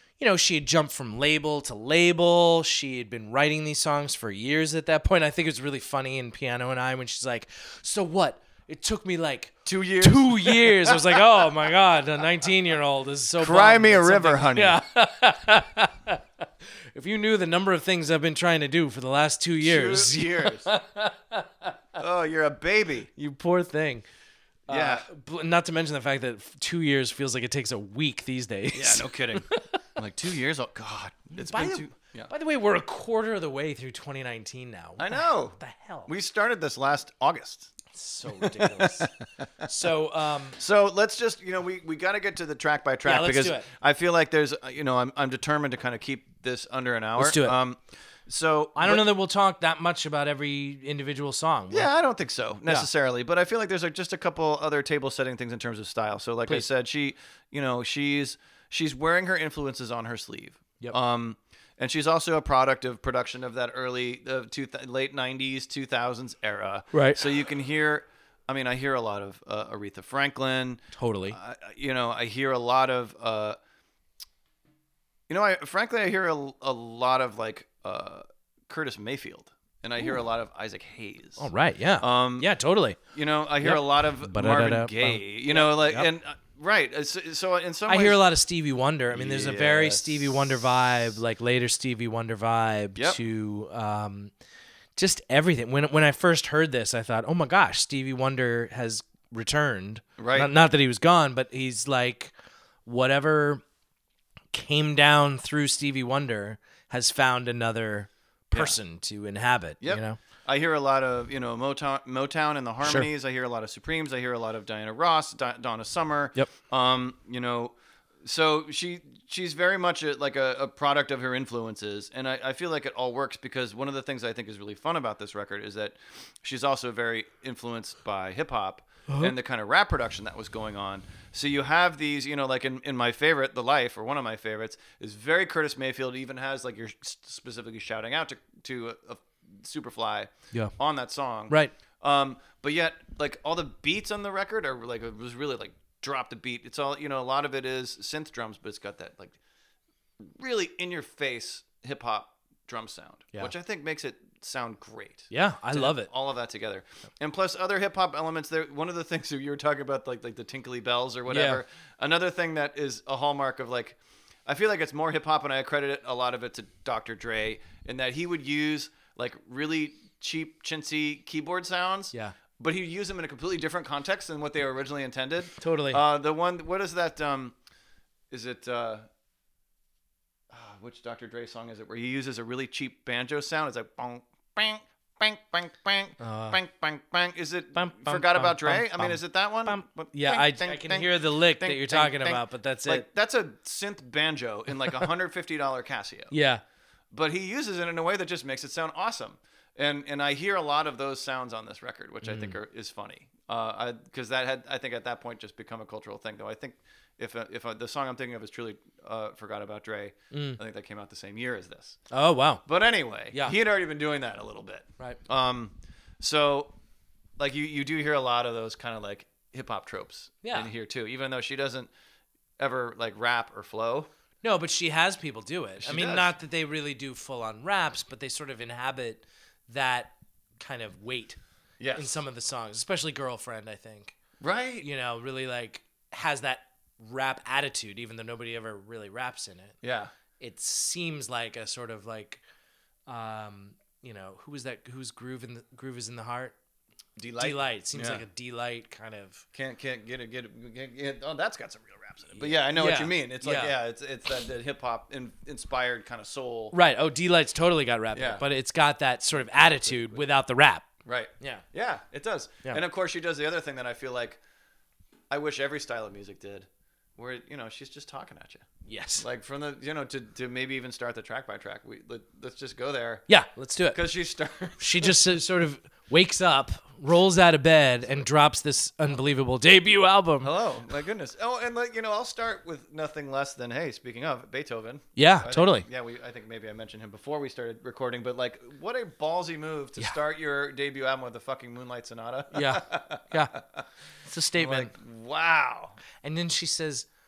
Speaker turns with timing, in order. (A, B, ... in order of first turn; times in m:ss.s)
0:00.2-0:21.8 A
0:09.6-0:11.5 B
0:13.4-0:14.8 B
0:19.6-0:20.7 B
0:22.0-0:23.1 B
0:23.2-0:24.0 A
0:24.7-0:25.1 B
0:24.7-0:29.8 A
0:28.7-0:32.3 B
0:31.4-0:36.1 A
0:35.0-0:37.7 B
0:37.9-0:40.6 A
0:38.3-0:39.1 B
0:40.6-0:49.0 B
0:43.0-0:43.7 A
0:47.2-0:47.6 A
0:48.8-0:51.9 A
0:51.7-1:13.6 B
1:06.9-1:07.3 A
1:11.0-1:11.4 A
1:15.3-1:21.5 B
1:21.4-1:23.0 A
1:22.0-1:22.5 B
1:23.1-1:28.2 B
1:23.6-1:26.1 A
1:27.9-1:34.3 A
1:29.1-1:30.7 B
1:35.0-1:42.3 A
1:40.2-1:40.5 B
1:42.9-1:43.6 A
1:44.5-1:50.2 A
1:49.8-2:29.4 B
1:52.8-1:53.1 A
2:09.1-2:09.3 A
2:21.5-2:21.7 A
2:30.2-2:57.6 B
2:35.3-2:36.1 A
2:41.3-2:41.6 A
2:55.6-2:56.0 A
2:58.3-2:59.0 B
3:00.5-3:16.3 B
3:06.2-3:06.6 A
3:07.8-3:13.0 A
3:16.3-3:16.6 A
3:17.1-3:32.0 B
3:22.2-3:22.6 A
3:30.3-3:30.6 A
3:32.1-3:32.6 A
3:32.7-3:36.7 B
3:37.4-3:41.9 B
3:40.4-3:40.7 A
3:42.6-3:44.1 B
3:44.4-3:51.4 A
3:45.8-3:46.3 B
3:51.8-3:52.2 B
3:52.0-3:54.2 A
3:54.4-3:54.9 B
3:54.8-3:59.8 A
3:59.8-4:00.1 B
4:00.4-4:02.4 A
4:03.1-4:06.6 A
4:07.2-4:08.2 B
4:07.4-4:09.4 A
4:09.5-4:16.8 B
4:12.4-4:13.7 A
4:16.7-4:20.9 A
4:18.1-4:18.4 B
4:19.8-4:20.2 B
4:21.0-4:24.4 B
4:25.3-4:28.7 B
4:28.9-4:29.2 A
4:29.2-4:33.3 B
4:33.3-4:34.0 A
4:33.9-4:35.2 B
4:34.8-4:40.5 A
4:40.4-4:53.8 B
4:45.2-4:45.9 A
4:52.5-4:53.6 A
4:54.2-4:54.9 A
4:54.6-4:56.0 B
4:56.2-4:57.1 A